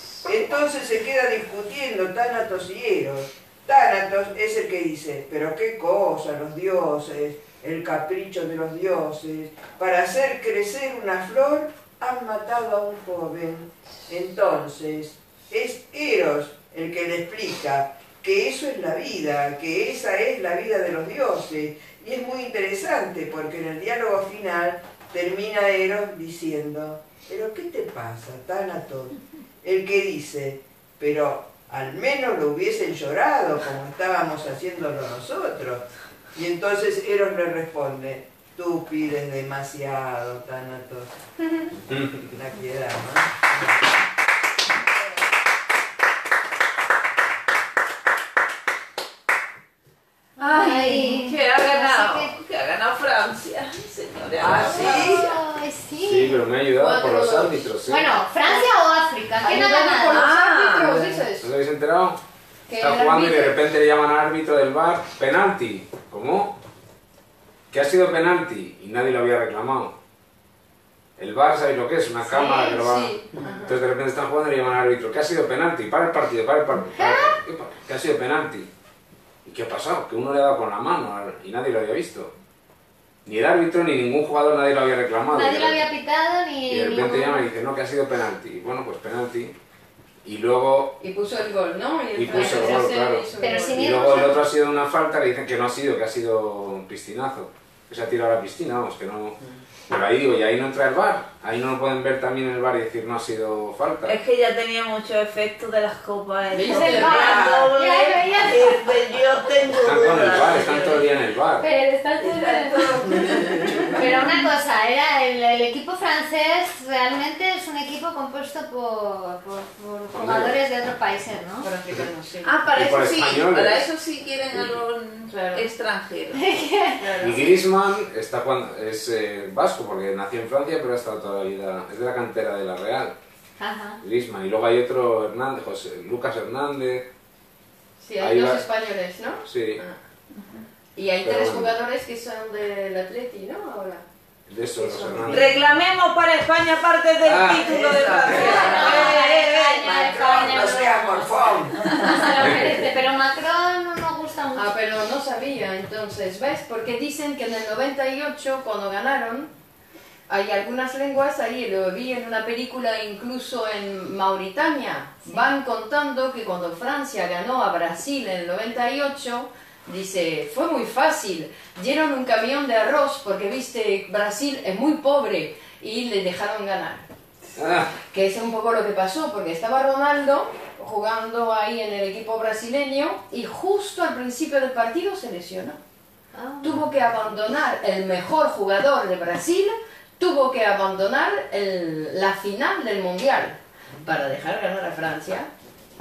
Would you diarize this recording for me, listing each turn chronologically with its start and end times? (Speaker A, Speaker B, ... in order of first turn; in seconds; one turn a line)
Speaker A: 0.2-41.1
Speaker B: 41.9-42.2
Speaker A: 42.3-43.9
Speaker C: 50.4-52.3
Speaker D: 50.4-55.3
Speaker A: 54.4-55.2
Speaker C: 54.6-56.4
Speaker B: 56.0-58.0
Speaker E: 56.7-57.7
Speaker C: 57.9-60.2
Speaker E: 59.4-61.5
Speaker D: 60.1-61.2
Speaker B: 61.4-62.2
Speaker E: 62.7-63.6
Speaker B: 62.8-66.6
Speaker B: 67.7-69.9
Speaker B: 71.2-78.7
Speaker E: 72.3-73.8
Speaker C: 76.9-77.3
Speaker B: 79.4-82.3
Speaker B: 83.2-85.8
Speaker C: 85.3-87.5
Speaker B: 86.7-89.5
Speaker B: 90.2-90.9
Speaker E: 91.0-93.9
Speaker B: 92.1-99.4
Speaker C: 93.4-94.4
Speaker B: 99.9-104.2
Speaker D: 104.1-110.7
Speaker E: 106.5-107.6
Speaker C: 106.7-108.9
Speaker B: 109.8-111.7
Speaker C: 111.6-121.7
Speaker B: 120.1-120.5
Speaker E: 121.6-122.6
Speaker D: 122.4-126.4
Speaker B: 122.6-123.9
Speaker E: 125.3-125.6
Speaker C: 126.3-127.5
Speaker E: 127.0-127.4
Speaker B: 127.2-133.1
Speaker C: 133.6-134.0
Speaker B: 134.0-137.1
Speaker E: 138.0-139.9
Speaker B: 138.2-138.6
Speaker B: 139.4-139.8
Speaker E: 140.9-144.0
Speaker B: 141.2-141.7
Speaker B: 144.5-145.5
Speaker E: 144.7-145.6
Speaker D: 145.3-150.1
Speaker B: 147.2-148.7
Speaker A: 147.7-149.1
Speaker C: 148.3-154.7
Speaker A: 149.8-151.9
Speaker E: 154.5-159.5
Speaker E: 160.3-177.0
Speaker B: 177.5-177.9
Speaker E: 178.0-185.8
Speaker C: 186.3-186.8
Speaker E: 186.6-195.5